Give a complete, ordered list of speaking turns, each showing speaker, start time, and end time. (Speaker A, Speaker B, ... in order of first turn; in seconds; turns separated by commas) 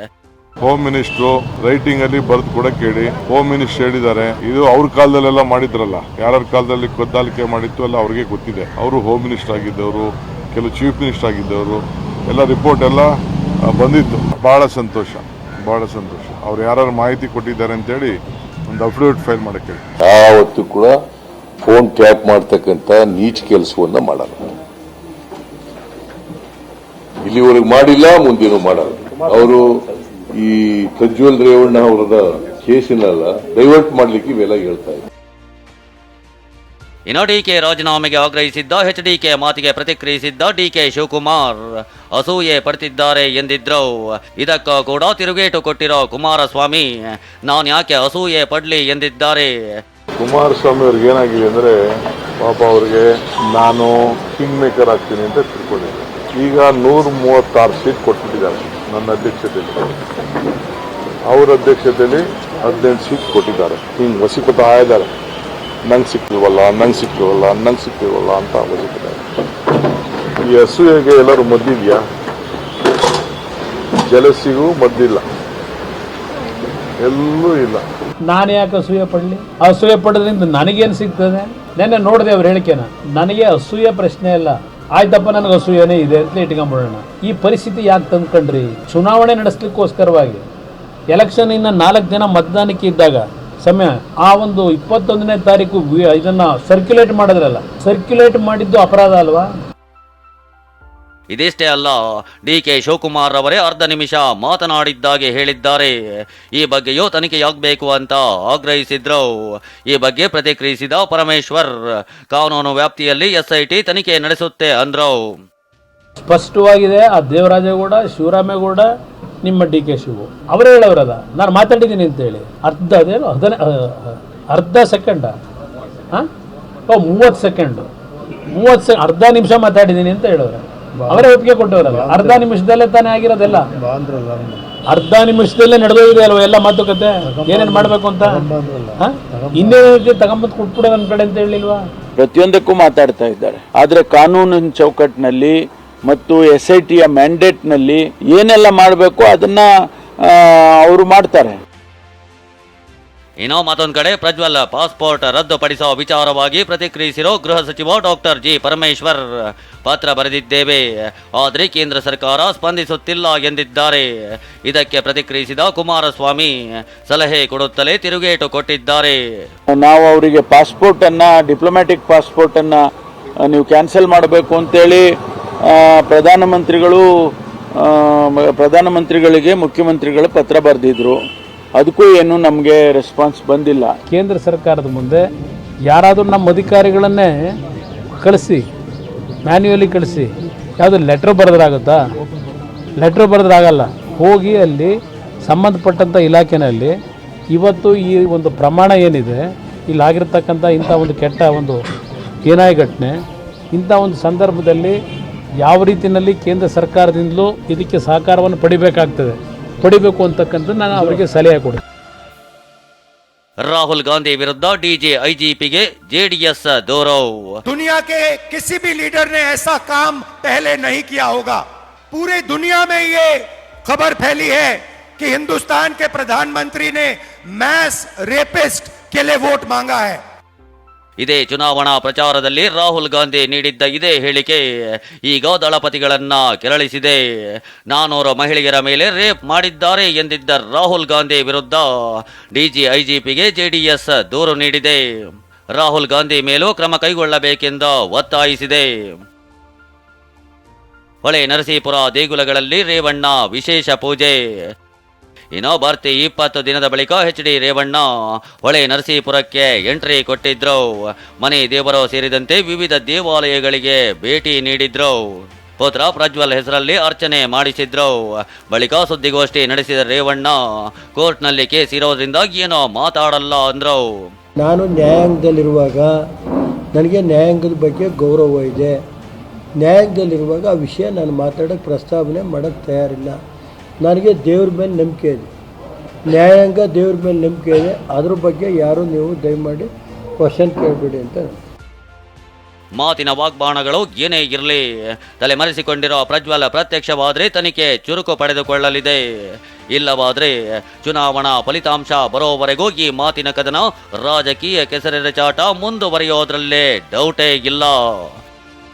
Speaker A: 0.6-13.1, Speaker A: 13.7-18.1, Speaker A: 18.7-19.8, Speaker B: 20.0-20.9, Speaker B: 21.6-24.4, Speaker B: 27.2-29.6, Speaker B: 30.3-35.0, Speaker C: 37.1-41.6, Speaker C: 42.1-46.9, Speaker C: 47.5-49.5, Speaker A: 50.2-51.7, Speaker A: 52.4-60.0, Speaker A: 61.3-65.1, Speaker A: 65.9-69.2, Speaker A: 70.5-72.0, Speaker A: 74.0-75.2, Speaker A: 77.0-77.8, Speaker D: 78.3-90.4, Speaker D: 91.1-99.5, Speaker C: 101.3-105.9, Speaker C: 106.6-109.3, Speaker C: 109.9-111.7, Speaker C: 112.3-115.2, Speaker D: 116.3-118.9, Speaker D: 119.4-125.3, Speaker D: 126.9-127.9, Speaker D: 128.5-133.7, Speaker E: 131.0-132.5, Speaker E: 133.4-134.7, Speaker D: 134.9-141.8, Speaker E: 137.3-139.8, Speaker F: 142.2-151.6, Speaker C: 153.4-160.8, Speaker C: 161.4-164.1, Speaker C: 164.7-169.2, Speaker F: 169.7-184.0, Speaker D: 184.1-185.2, Speaker D: 185.9-187.5, Speaker D: 188.2-188.6, Speaker D: 189.5-190.3, Speaker D: 190.8-192.0, Speaker D: 193.0-194.9, Speaker D: 195.5-196.9, Speaker D: 197.5-201.9, Speaker D: 202.5-203.2, Speaker D: 203.7-205.0, Speaker D: 205.6-211.8, Speaker C: 213.7-217.6, Speaker E: 217.7-221.6, Speaker E: 222.1-230.2, Speaker C: 231.2-234.6, Speaker C: 235.3-237.2, Speaker C: 237.9-241.9, Speaker C: 242.5-245.0, Speaker C: 245.8-248.9, Speaker C: 251.2-254.4, Speaker C: 255.6-258.1, Speaker C: 258.6-260.8, Speaker C: 261.4-265.2, Speaker C: 265.8-270.6, Speaker C: 271.1-274.1, Speaker G: 274.6-276.1, Speaker G: 276.9-279.0, Speaker G: 279.8-283.4, Speaker G: 284.0-285.5, Speaker G: 286.3-289.9, Speaker G: 290.4-291.6, Speaker C: 292.9-294.8, Speaker C: 295.4-299.2, Speaker C: 299.9-308.3